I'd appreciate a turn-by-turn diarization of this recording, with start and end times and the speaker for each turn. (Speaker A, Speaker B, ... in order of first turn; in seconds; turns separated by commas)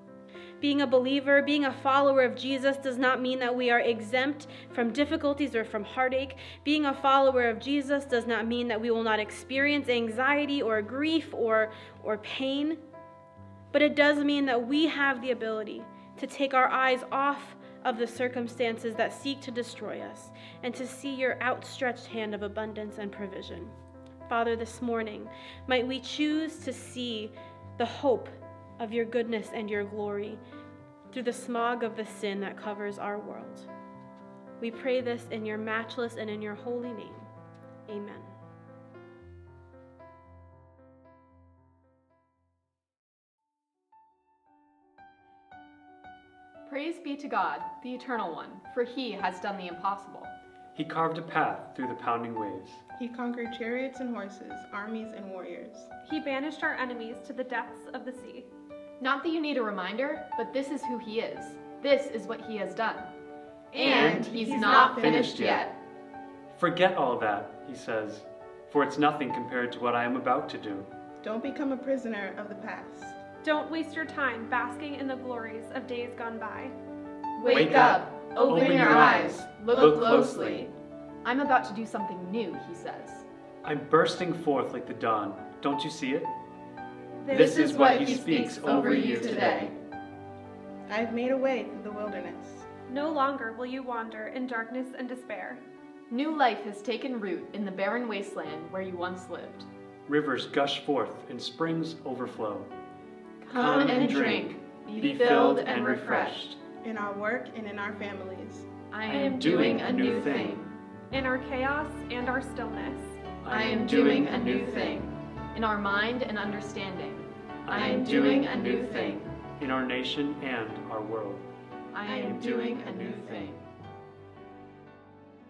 Speaker A: 0.6-12.8, Speaker A: 13.7-23.8, Speaker A: 24.3-30.4, Speaker A: 31.1-33.7, Speaker A: 34.6-37.3, Speaker A: 37.9-38.3, Speaker B: 46.7-50.3, Speaker C: 50.8-52.8, Speaker D: 53.0-55.9, Speaker E: 56.0-58.5, Speaker B: 59.0-63.1, Speaker B: 63.7-65.8, Speaker D: 63.8-65.3, Speaker C: 63.8-65.7, Speaker E: 63.9-64.2, Speaker E: 64.7-65.0, Speaker C: 66.5-70.9, Speaker D: 71.2-73.2, Speaker E: 73.4-76.8, Speaker B: 77.4-80.7, Speaker C: 77.5-80.7, Speaker B: 81.2-83.3, Speaker C: 83.6-86.3, Speaker E: 87.3-89.6, Speaker B: 87.3-89.7, Speaker C: 87.3-89.7, Speaker D: 90.9-92.7, Speaker E: 92.9-95.6, Speaker B: 96.1-99.7, Speaker C: 100.1-102.7, Speaker B: 103.4-106.4, Speaker C: 103.5-106.6, Speaker D: 106.8-108.7, Speaker B: 108.9-110.7, Speaker E: 109.1-110.5, Speaker C: 109.1-110.6, Speaker E: 111.1-113.2, Speaker C: 113.5-115.0, Speaker B: 113.5-119.3, Speaker C: 117.7-121.5, Speaker B: 121.9-123.6, Speaker C: 122.0-123.6